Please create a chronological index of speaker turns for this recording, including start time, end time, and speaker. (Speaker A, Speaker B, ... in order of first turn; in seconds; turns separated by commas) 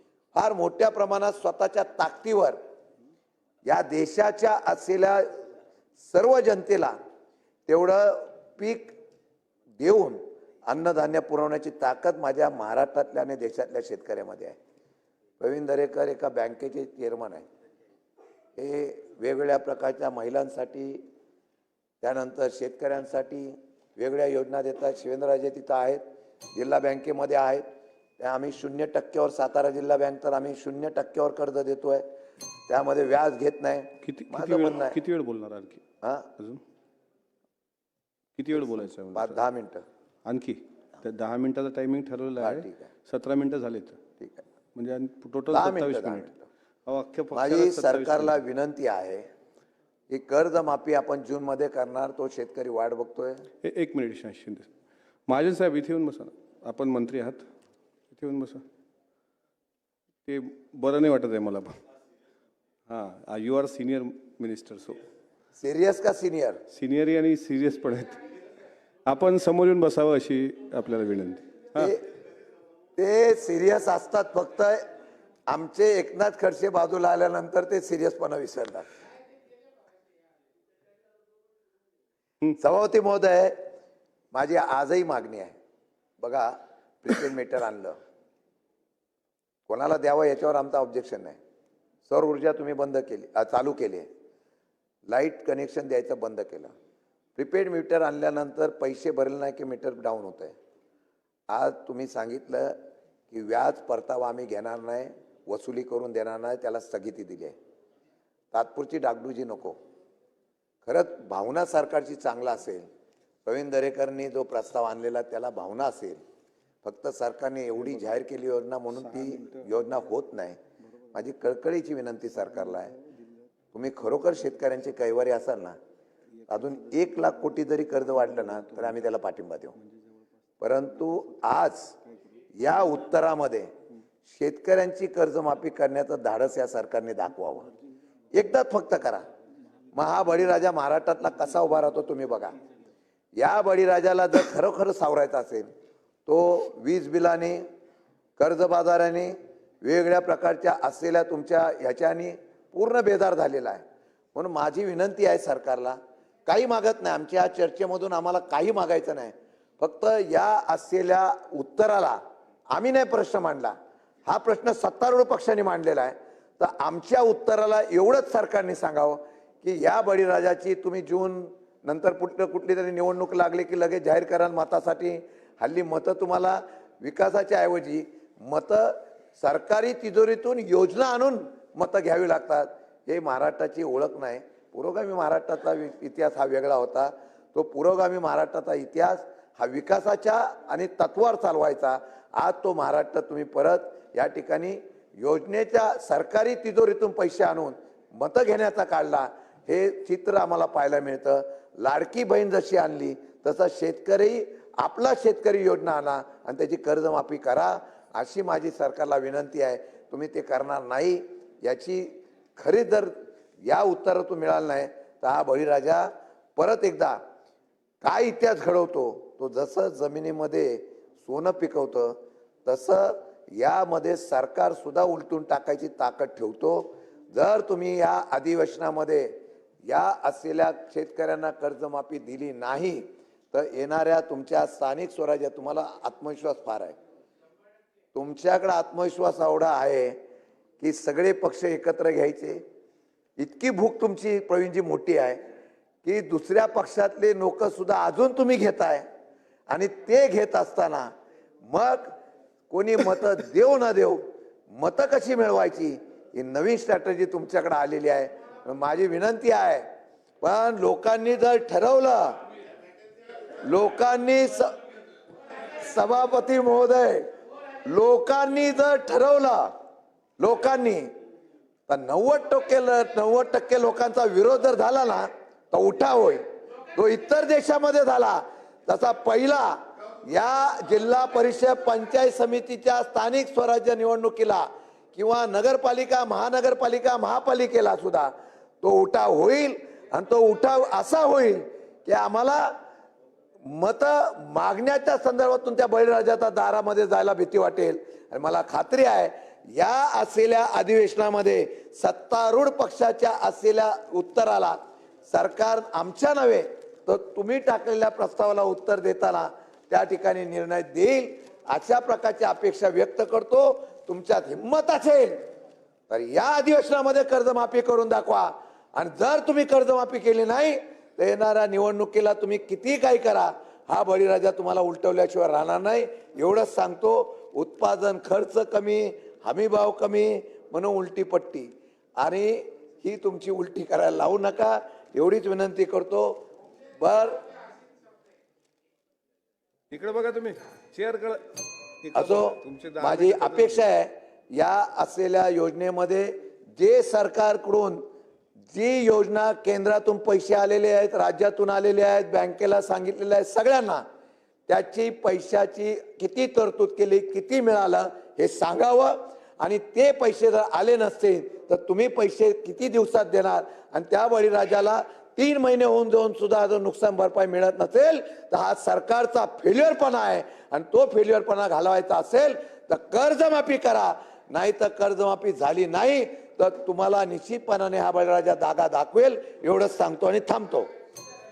Speaker A: 0.3-2.6, Speaker A: 3.6-5.4, Speaker A: 6.0-7.0, Speaker A: 7.7-8.9, Speaker A: 9.8-14.6, Speaker A: 15.4-17.4, Speaker A: 18.6-21.0, Speaker A: 22.0-26.0, Speaker A: 26.5-27.6, Speaker A: 28.2-32.0, Speaker A: 32.7-35.0, Speaker B: 34.0-35.8, Speaker A: 36.0-36.3, Speaker B: 38.4-39.4, Speaker A: 39.1-39.8, Speaker B: 40.2-44.0, Speaker A: 42.4-42.9, Speaker B: 44.7-46.3, Speaker A: 45.5-46.4, Speaker B: 46.9-48.4, Speaker A: 47.3-49.3, Speaker A: 50.1-53.5, Speaker B: 53.6-54.7, Speaker B: 55.3-57.4, Speaker B: 58.1-58.6, Speaker B: 60.2-61.7, Speaker B: 62.9-65.0, Speaker A: 65.5-66.6, Speaker B: 66.7-68.2, Speaker B: 69.0-71.9, Speaker A: 71.8-72.1, Speaker A: 73.0-74.8, Speaker A: 75.5-78.9, Speaker A: 82.5-83.6, Speaker A: 84.3-85.6, Speaker A: 86.2-88.0, Speaker A: 89.7-91.4, Speaker A: 92.1-94.1, Speaker A: 95.1-96.7, Speaker A: 97.3-100.5, Speaker A: 101.5-102.8, Speaker A: 103.3-107.5, Speaker A: 108.5-109.8, Speaker A: 110.8-112.8, Speaker A: 113.5-116.2, Speaker A: 116.8-120.6, Speaker A: 121.1-122.9, Speaker A: 123.7-125.8, Speaker A: 126.5-129.7, Speaker A: 130.6-132.0, Speaker A: 132.6-133.7, Speaker A: 134.3-137.7, Speaker A: 138.3-139.2, Speaker A: 139.9-142.6, Speaker A: 143.4-145.7, Speaker A: 146.2-147.6, Speaker A: 148.4-153.8, Speaker A: 154.3-162.2, Speaker A: 162.7-163.7, Speaker A: 164.2-213.1, Speaker A: 213.6-217.2, Speaker A: 218.0-236.9, Speaker A: 238.1-240.2, Speaker A: 240.8-242.6, Speaker A: 243.4-245.4, Speaker A: 246.0-249.0, Speaker A: 249.7-251.1, Speaker A: 251.7-252.2, Speaker A: 252.7-259.8, Speaker A: 260.4-262.4, Speaker A: 263.6-264.8, Speaker A: 265.7-267.3, Speaker A: 267.8-269.7, Speaker A: 270.4-271.1, Speaker A: 271.9-292.7, Speaker A: 293.6-304.8, Speaker A: 305.3-315.4, Speaker A: 316.1-336.4, Speaker A: 337.0-337.5, Speaker B: 339.9-343.9, Speaker A: 342.1-348.0, Speaker A: 348.7-354.0, Speaker A: 354.7-380.9